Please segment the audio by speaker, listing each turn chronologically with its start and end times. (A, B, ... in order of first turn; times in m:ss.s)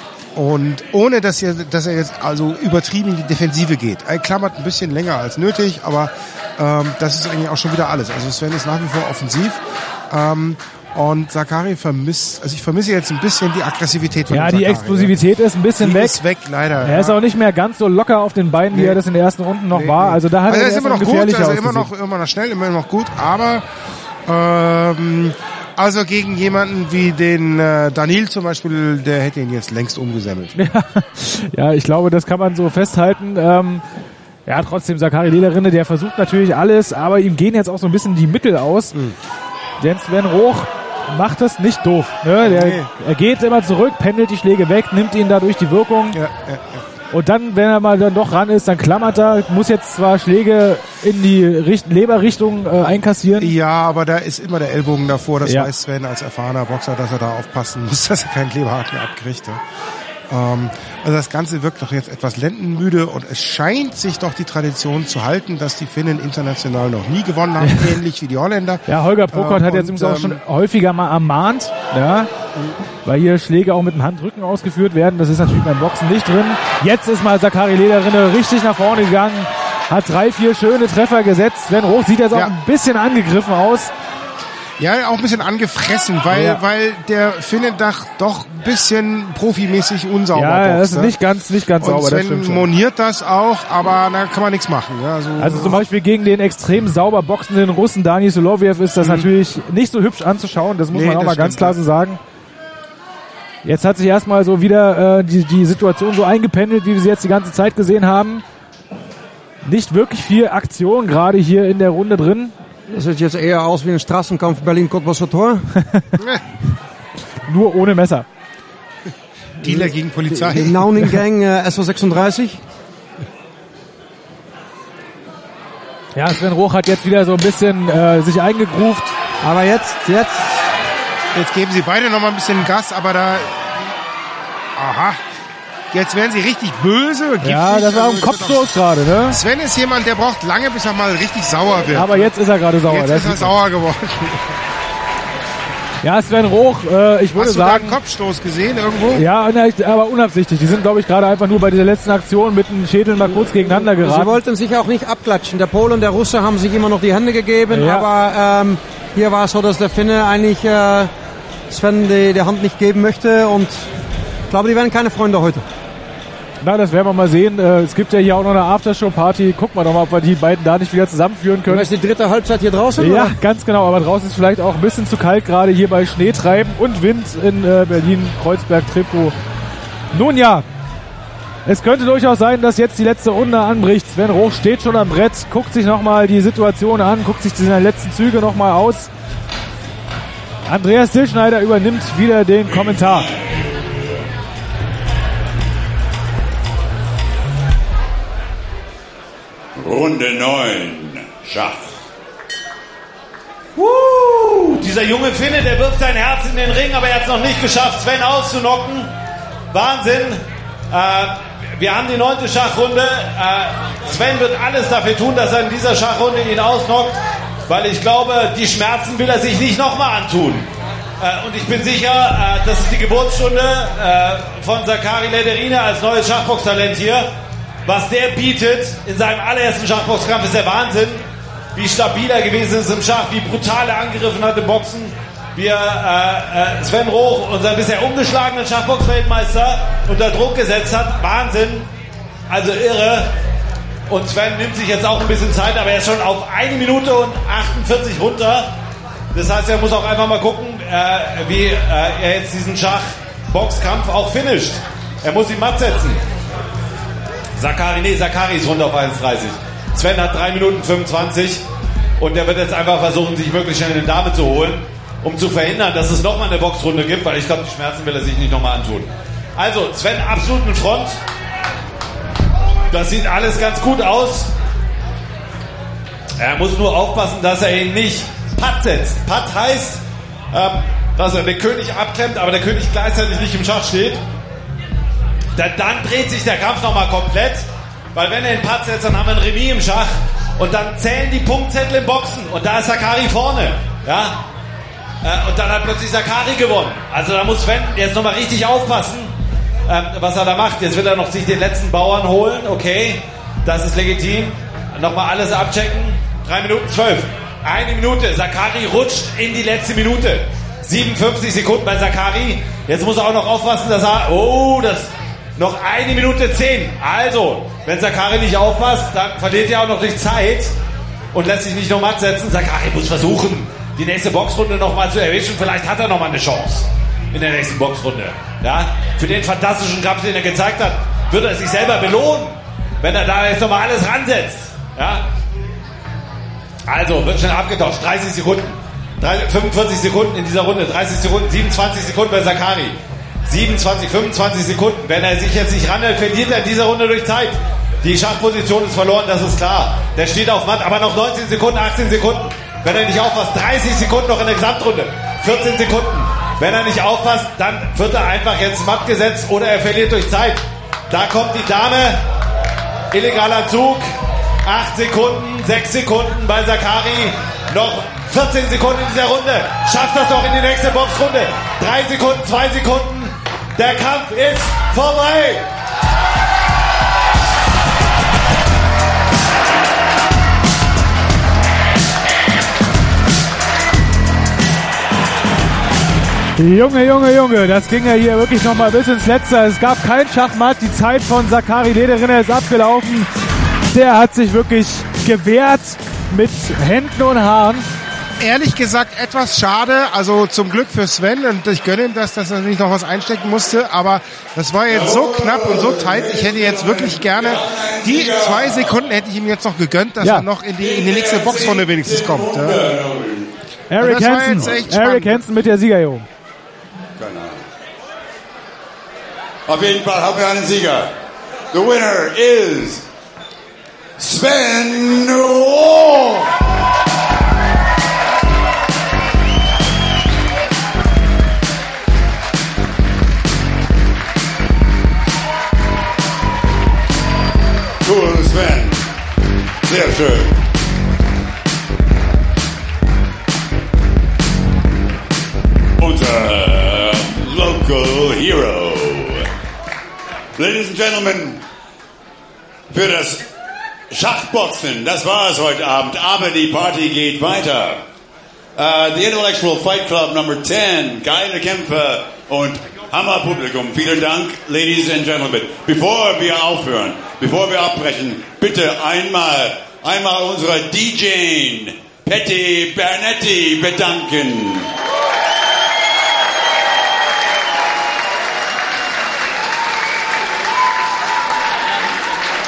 0:00.3-0:15.1 A
0:14.3-0:16.2 B
0:15.8-0:17.2 A
0:16.8-0:21.9 B
0:18.7-0:19.0 A
0:19.7-0:23.6 A
0:24.2-0:30.6 A
0:30.6-0:33.8 B
0:34.4-0:38.9 B
0:39.8-0:46.2 B
0:42.4-0:42.9 A
0:46.1-0:46.8 A
0:47.1-0:53.5 B
0:53.4-0:59.6 A
1:00.3-1:10.4 A
1:08.9-1:12.3 B
1:13.0-1:23.9 B
1:24.8-1:31.1 A
1:26.3-1:26.6 B
1:30.3-1:32.7 B
1:31.8-1:35.8 A
1:35.4-1:42.2 B
1:39.0-1:39.3 A
1:40.9-1:41.8 A
1:43.6-1:48.4 B
1:49.6-1:52.5 B
1:52.9-1:55.7 C
1:57.5-1:58.2 B
1:59.6-2:01.1 A
1:59.6-2:02.6 C
2:06.1-2:09.1 B
2:09.4-2:10.4 C
2:11.3-2:13.8 A
2:14.8-2:15.2 A
2:15.9-2:18.7 A
2:17.4-2:19.4 B
2:19.3-2:22.3 A
2:21.9-2:23.5 B
2:22.9-2:24.4 A
2:26.0-2:28.0 B
2:27.4-2:29.2 A
2:29.1-2:34.4 B
2:33.9-2:41.1 C
2:37.7-2:38.1 B
2:41.7-2:43.9 C
2:44.5-2:45.6 C
2:46.6-2:51.9 B
2:51.7-2:53.3 C
2:53.0-2:59.3 B
3:00.1-3:00.6 B
3:01.6-3:09.1 B
3:10.7-3:13.3 B
3:19.8-3:21.9 D
3:23.8-3:29.1 E
3:29.7-3:40.7 E
3:41.2-3:47.3 E
3:47.8-3:51.2 E
3:51.7-4:01.9 E
4:02.5-4:03.3 E
4:04.1-4:08.7 E
4:09.3-4:16.2 E
4:17.6-4:21.6 E
4:22.2-4:31.2 E
4:32.9-4:34.5 E
4:36.4-4:40.0 E
4:40.5-4:44.2 E
4:45.6-4:54.4 E
4:55.2-4:59.3 E
4:59.9-5:20.7 E
5:21.3-5:35.2 E
5:36.9-5:43.0 E
5:43.5-6:02.2 E
6:03.1-6:04.0 E
6:04.6-6:15.7 E
6:26.6-6:33.3 B
6:33.9-6:37.8 B
6:38.4-6:52.8 A
6:44.9-6:49.0 D
6:50.8-6:53.5 D
6:53.9-6:56.3 B
6:54.0-6:55.4 A
6:54.5-6:54.8 D
6:57.2-6:57.6 D
6:59.7-7:01.1 D
7:01.7-7:03.0 D
7:04.2-7:06.5 D
7:18.0-7:19.0 D
7:19.8-7:20.6 D
7:26.0-7:29.5 D
7:30.6-7:31.6 D
7:32.9-7:33.5 D
7:34.1-7:38.0 D
7:38.8-7:54.9 D